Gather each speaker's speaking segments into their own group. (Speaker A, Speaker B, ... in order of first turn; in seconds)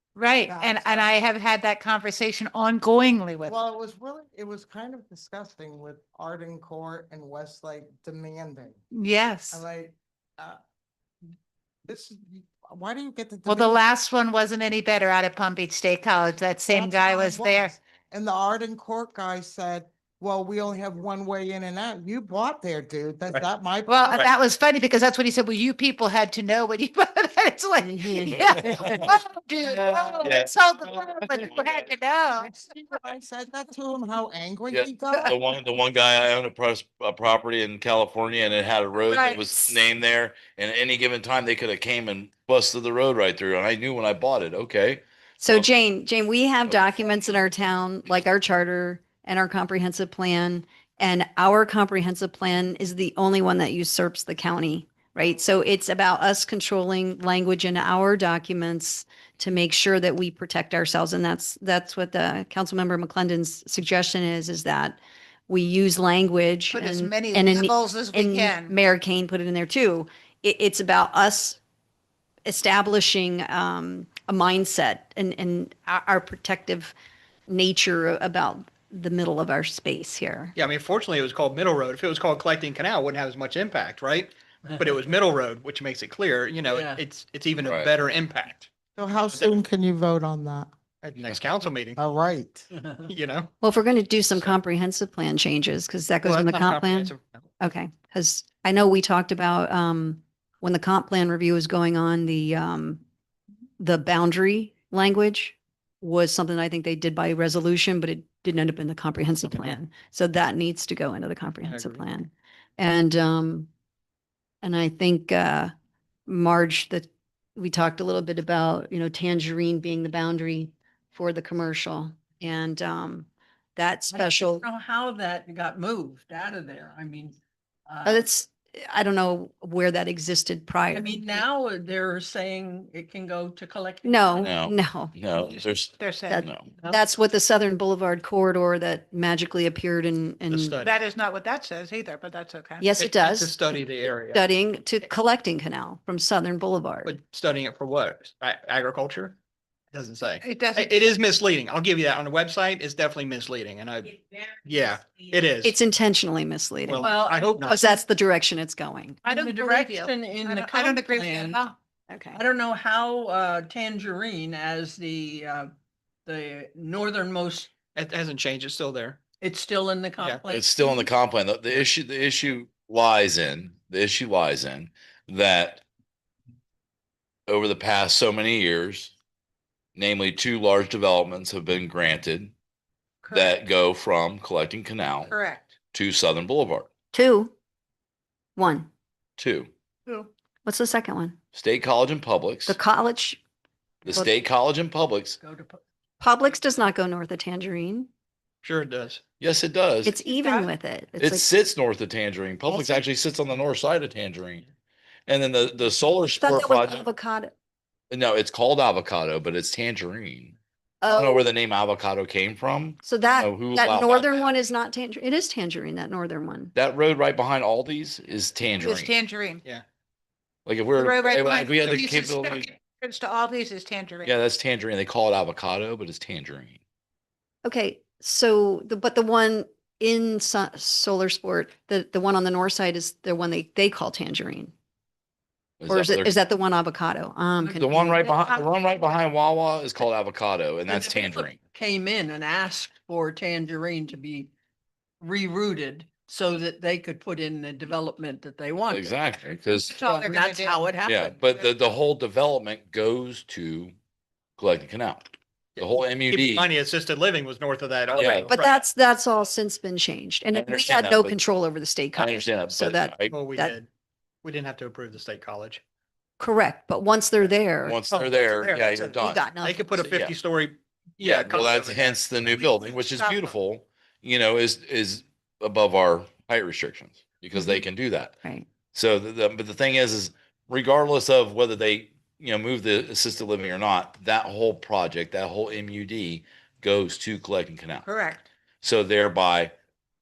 Speaker A: 0.1-3.5, 8.9-9.7, 13.5-17.7, 23.9-32.5, 39.1-39.8, 66.7-68.7, 135.4-136.5, 140.8-142.8, 150.4-151.1, 159.2-161.8, 183.2-183.6, 185.3-185.7, 200.2-200.7, 218.8-219.6, 220.9-224.3, 249.9-250.8, 273.0-273.5, 288.0-288.4
Speaker B: 0.5-1.2, 3.5-8.8, 9.5-10.6, 11.9-13.8, 16.7-24.2, 32.4-35.3, 89.0-90.7, 92.0-92.7
Speaker C: 28.7-29.1, 29.7-31.9, 34.7-45.7, 46.7-47.1, 87.6-87.9, 134.4-136.7, 170.5-175.8, 177.5-179.1, 180.0-182.5, 183.3-185.3, 185.9-186.9, 189.4-189.7, 191.5-192.8, 194.0-195.4, 199.4-200.2, 201.2-204.7, 205.3-207.1, 208.1-210.6, 211.1-214.5, 216.8-219.1, 220.7-222.7, 224.2-226.8, 235.8-236.3, 237.8-241.6, 248.9-250.0, 251.1-253.9, 254.6-255.3, 255.8-256.7, 258.1-258.5, 260.5-261.4, 262.1-263.3, 267.8-270.3, 271.2-278.4, 278.9-288.1, 288.8-289.7
Speaker D: 45.4-71.6, 72.5-76.9, 77.5-80.6, 93.6-103.0, 103.8-113.7, 114.6-115.7, 116.3-124.7, 128.1-131.4, 134.0-135.1, 136.3-140.8, 142.8-147.2, 155.6-157.1, 157.7-159.2, 162.1-162.4, 187.1-187.5, 188.6-188.9, 190.7-191.4, 192.7-193.4, 196.2-198.1, 200.1-201.5, 206.4-207.5, 211.0-211.4, 213.0-216.7, 227.6-234.7, 235.9-238.3, 258.5-263.8, 266.4-268.0, 269.2-269.8
Speaker E: 80.6-88.7, 91.0-92.0, 93.1-93.5, 94.3-94.6, 96.2-97.4, 111.7-112.0, 140.5-141.0, 142.9-144.4, 147.1-149.4, 149.9-155.8, 156.9-157.8, 167.9-169.2, 170.2-170.4, 198.6-199.2, 255.8-258.7, 263.3-263.9, 264.4-265.8, 268.1-272.6
Speaker F: 86.7-87.0, 92.8-93.0, 124.1-128.3, 130.9-134.5, 157.0-157.7, 159.3-161.6, 162.3-165.7, 166.2-167.7, 169.4-171.1, 195.4-195.8, 237.6-238.2, 240.9-244.5, 245.2-249.1, 250.0-251.4